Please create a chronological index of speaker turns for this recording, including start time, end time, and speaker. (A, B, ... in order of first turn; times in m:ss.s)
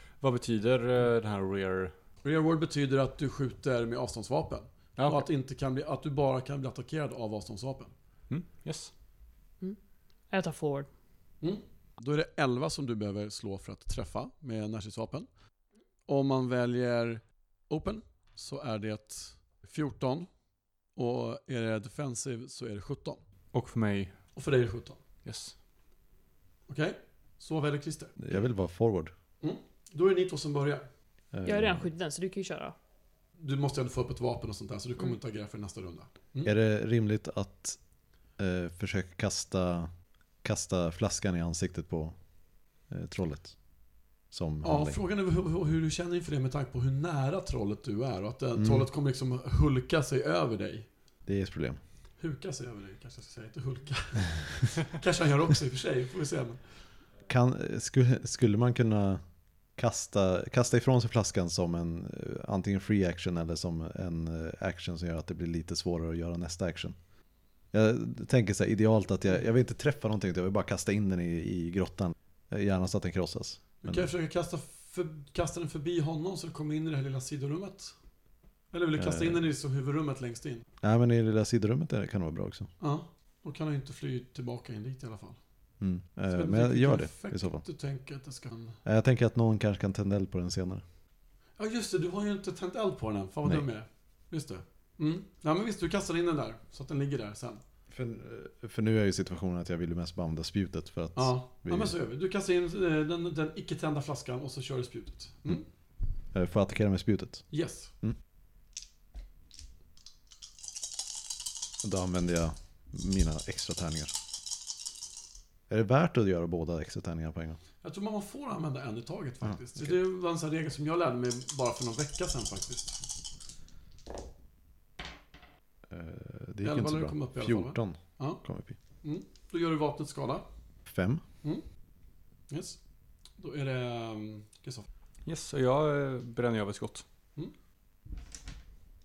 0:00.2-0:01.9 A
0:02.2-0:07.9 B
0:05.0-0:05.2 A
0:08.3-0:08.9 A
0:10.3-0:10.9 C
0:11.4-0:15.3 B
0:16.1-0:20.3 B
0:20.9-0:23.2 B
0:23.5-0:24.2 A
0:24.3-0:25.0 B
0:25.2-0:25.5 A
0:26.7-0:28.2 B
0:28.2-0:29.1 D
0:29.4-0:30.8 B
0:31.3-0:31.8 D
0:31.4-0:32.7 C
0:33.4-0:36.5 B
0:36.4-0:37.8 D
0:38.4-0:39.9 D
0:40.4-0:42.1 D
0:42.9-0:43.5 D
0:44.3-0:45.0 D
0:44.6-0:50.9 B
0:48.5-0:48.9 D
0:51.2-0:51.8 D
0:52.2-0:56.7 B
0:57.3-0:59.2 D
0:59.7-1:07.0 D
1:07.7-1:14.1 D
1:13.8-1:17.9 B
1:18.7-1:20.6 B
1:19.0-1:19.4 D
1:20.8-1:22.7 D
1:22.8-1:25.4 B
1:25.8-1:27.6 D
1:26.3-1:28.8 B
1:28.8-1:30.8 D
1:31.6-1:37.6 B
1:37.9-1:41.9 D
1:41.1-1:45.6 B
1:46.3-1:47.5 D
1:47.5-1:47.9 B
1:51.8-1:54.1 D
1:55.7-1:57.6 D
1:57.8-2:03.0 B
1:59.4-2:00.0 D
2:05.9-2:08.8 D
2:06.6-2:08.4 B
2:09.0-2:10.4 B
2:10.9-2:11.2 D
2:12.5-2:12.8 B
2:13.4-2:14.9 B
2:15.2-2:17.0 A